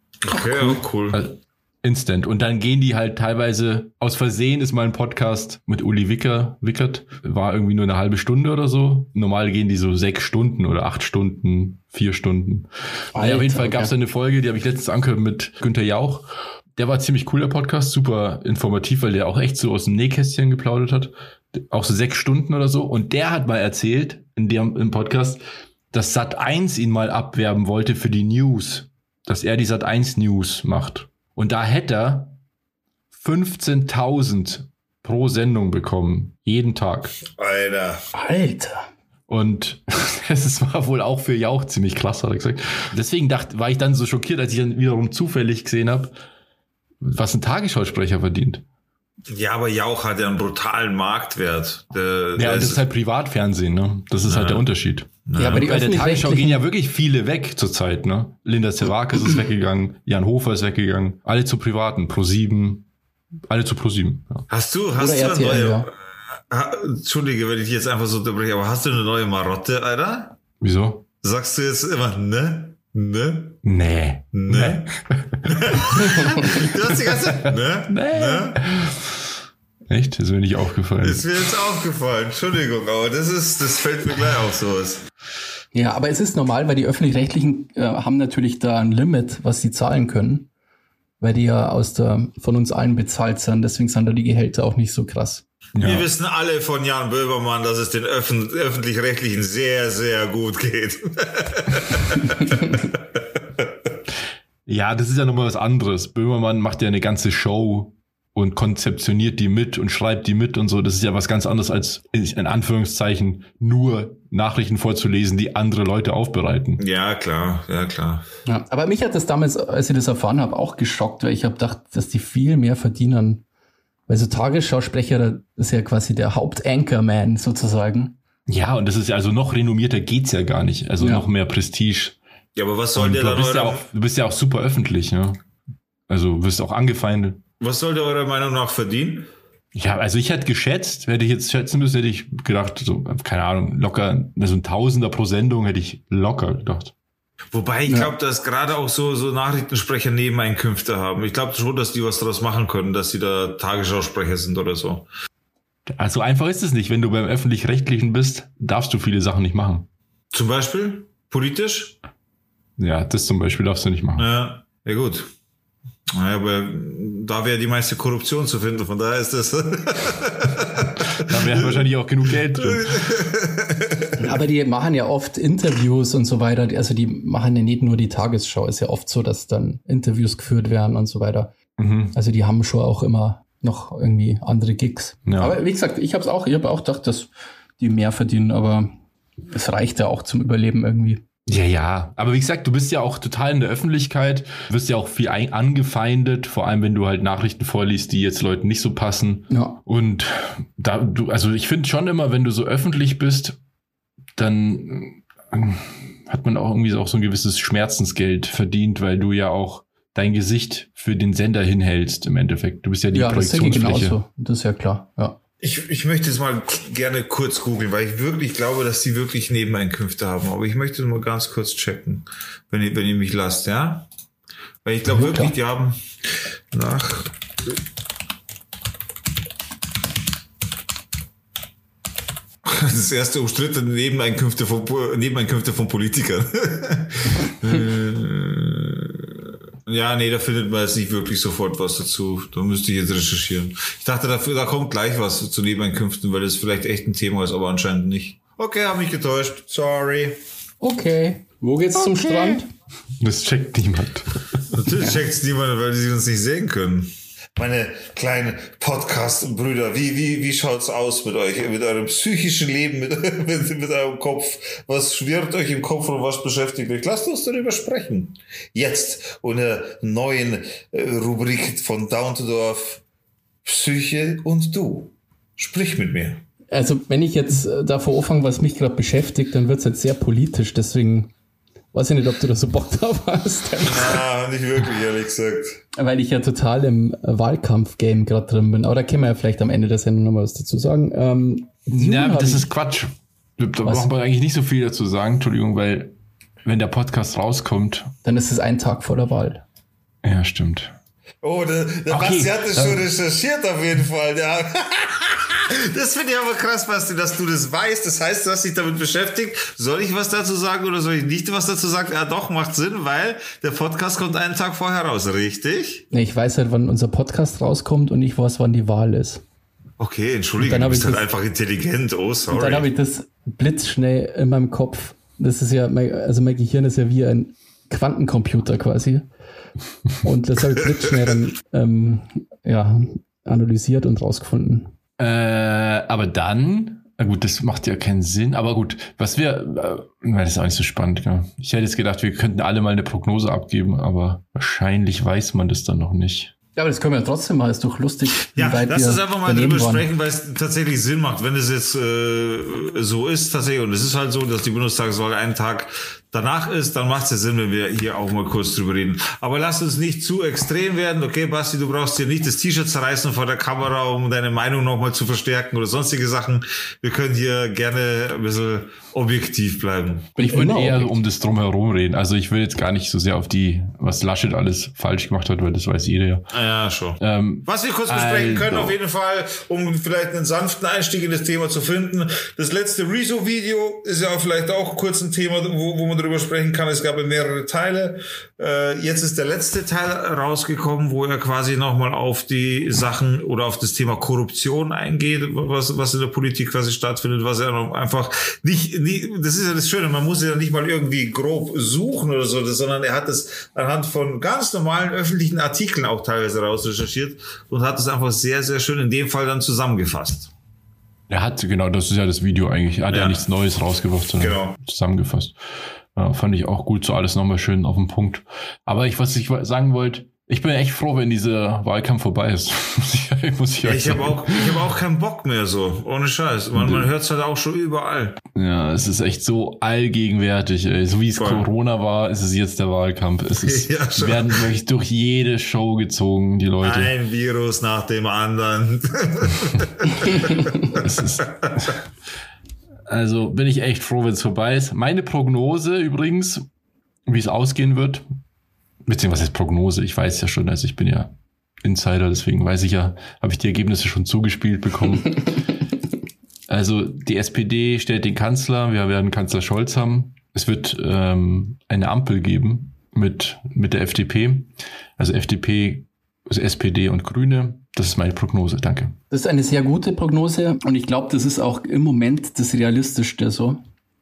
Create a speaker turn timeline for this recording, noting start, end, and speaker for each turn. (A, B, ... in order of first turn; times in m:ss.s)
0:00.2-0:01.2 A
0:00.5-0:25.4 B
0:13.1-0:13.9 C
0:25.9-0:32.4 B
0:33.1-0:37.2 B
0:37.4-0:38.0 A
0:38.1-0:38.9 C
0:39.3-0:46.1 B
0:47.0-0:48.6 B
0:49.3-0:52.8 A
0:52.4-1:02.8 B
0:54.2-0:54.6 A
0:55.2-0:55.6 A
0:55.4-0:56.6 C
1:03.5-1:04.4 B
1:04.5-1:05.9 A
1:05.0-1:05.9 C
1:06.5-1:10.3 A
1:10.6-1:11.0 B
1:11.2-1:13.6 A
1:13.6-1:16.6 B
1:14.3-1:14.9 A
1:15.4-1:18.6 A
1:17.3-1:19.0 B
1:19.9-1:21.3 B
1:21.0-1:25.0 A
1:25.7-1:30.5 C
1:31.2-1:35.4 C
1:35.7-1:36.1 B
1:35.8-1:42.9 A
1:44.7-1:56.8 B
1:56.8-1:58.2 A
1:58.4-2:03.4 C
2:04.1-2:08.2 C
2:08.5-2:12.2 B
2:11.0-2:11.3 C
2:12.5-2:13.8 A
2:13.0-2:15.4 B
2:16.1-2:17.4 B
2:17.6-2:19.3 A
2:19.7-2:26.9 B
2:27.5-2:35.1 A
2:27.8-2:28.1 C
2:35.9-2:39.9 B
2:40.3-2:42.0 A
2:42.8-2:44.3 B
2:44.2-2:45.3 A
2:46.1-2:51.9 A
2:51.2-2:52.9 B
2:52.6-2:54.2 A
2:54.2-3:01.5 C
3:01.8-3:02.2 B
3:02.1-3:08.9 C
3:05.2-3:05.6 B
3:09.5-3:11.2 C
3:11.5-3:23.6 B
3:19.5-3:19.8 C
3:24.4-3:34.1 B
3:33.1-3:35.4 C
3:35.6-3:44.0 A
3:44.8-3:46.0 A
3:45.1-3:45.5 C
3:46.7-3:47.3 A
3:52.6-3:59.3 A
3:59.9-4:10.4 A
4:10.8-4:12.7 C
4:12.0-4:12.6 B
4:13.2-4:14.6 B
4:14.7-4:33.0 A
4:33.6-4:36.4 A
4:36.7-4:41.3 C
4:41.9-4:44.2 C
4:43.8-4:45.8 A
4:46.0-4:52.7 C
4:51.9-4:58.1 B
4:53.8-4:54.1 C
4:58.2-4:59.6 C
5:00.2-5:00.9 B
5:01.4-5:16.0 A
5:02.1-5:03.0 B
5:16.1-5:19.4 C
5:20.0-5:22.9 A
5:20.6-5:21.3 C
5:22.5-5:29.3 C
5:30.2-5:34.9 C
5:35.2-5:46.5 B
5:46.8-5:50.1 C
5:48.5-6:10.4 A
6:10.4-6:11.1 C
6:10.4-6:16.5 B
6:16.5-6:50.5 A
6:17.2-6:19.0 B
6:51.3-6:55.6 B
6:53.1-6:53.4 A
6:54.3-6:54.7 A
6:56.1-7:04.8 B
7:03.8-7:08.4 A
7:06.8-7:07.1 B
7:08.5-7:17.1 B
7:11.4-7:11.6 A
7:13.6-7:14.6 A
7:16.8-7:21.8 A
7:20.9-7:22.0 B
7:23.1-7:26.7 B
7:27.2-7:28.2 B
7:29.0-7:35.6 B
7:36.7-7:49.1 B
7:49.3-7:53.8 C